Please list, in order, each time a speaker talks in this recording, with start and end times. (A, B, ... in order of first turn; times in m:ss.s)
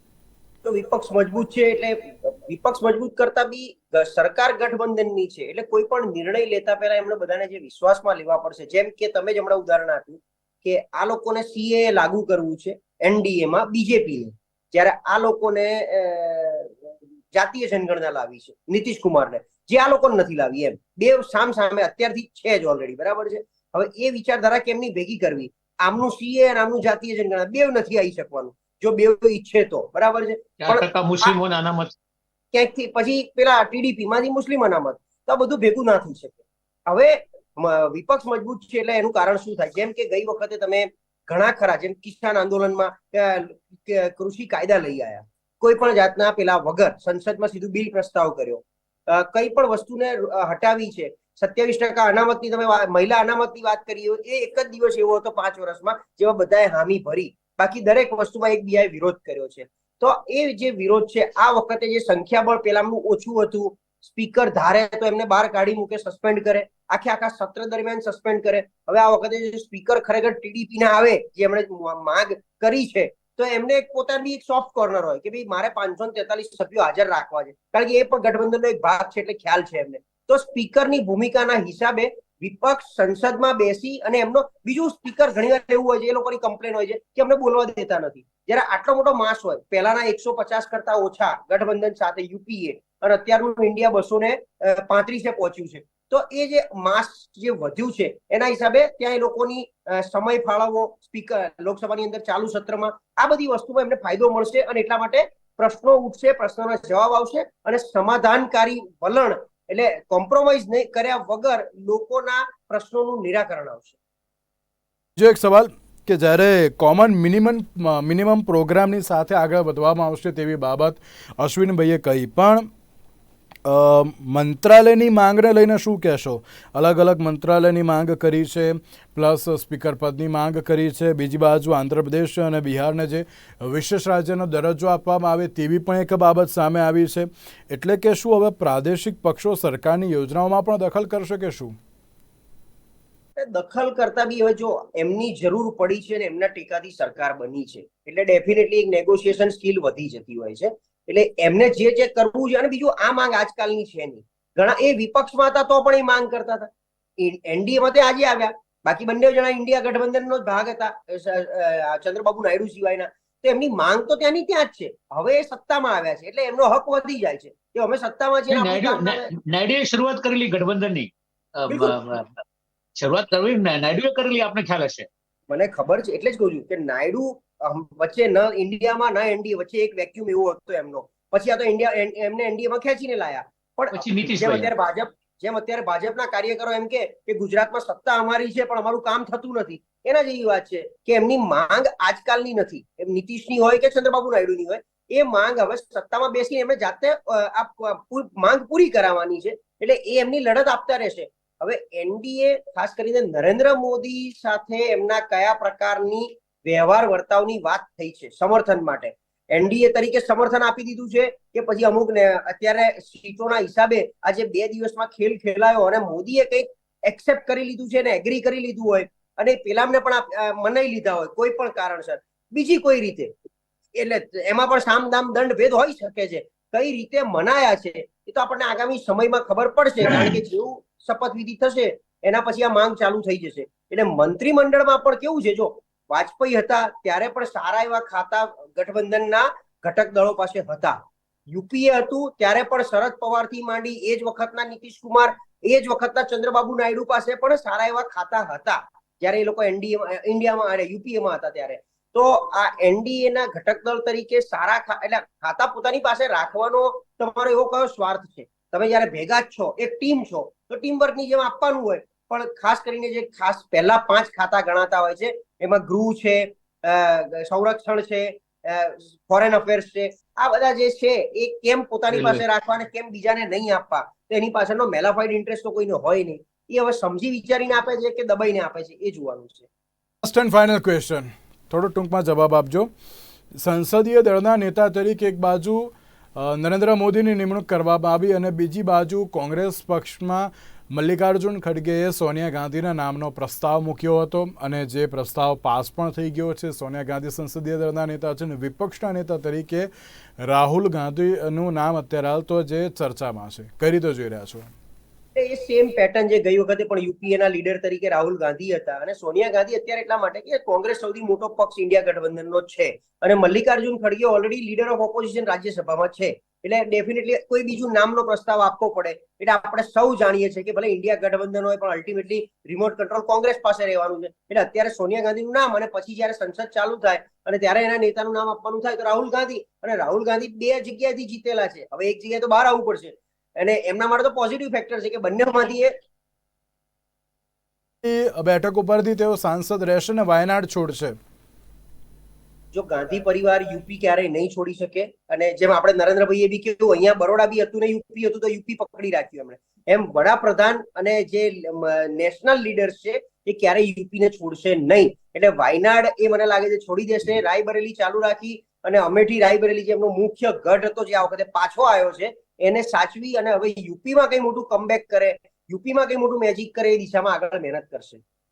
0:00.6-0:16.8 A
0:17.3-0:31.4 A
0:30.6-0:31.9 B
0:32.5-1:53.9 A
1:55.2-2:02.7 C
2:03.7-2:21.8 C
2:23.4-2:49.3 A
2:48.5-2:52.4 B
2:53.0-2:55.1 B
2:55.5-3:43.3 A
3:03.9-3:04.7 B
3:44.0-4:01.0 A
4:01.5-4:39.7 A
4:32.1-4:32.4 B
4:40.2-4:42.9 C
4:43.6-4:59.9 C
5:00.4-5:04.7 C
5:05.4-5:35.9 A
5:38.0-5:41.2 C
5:42.7-6:08.2 A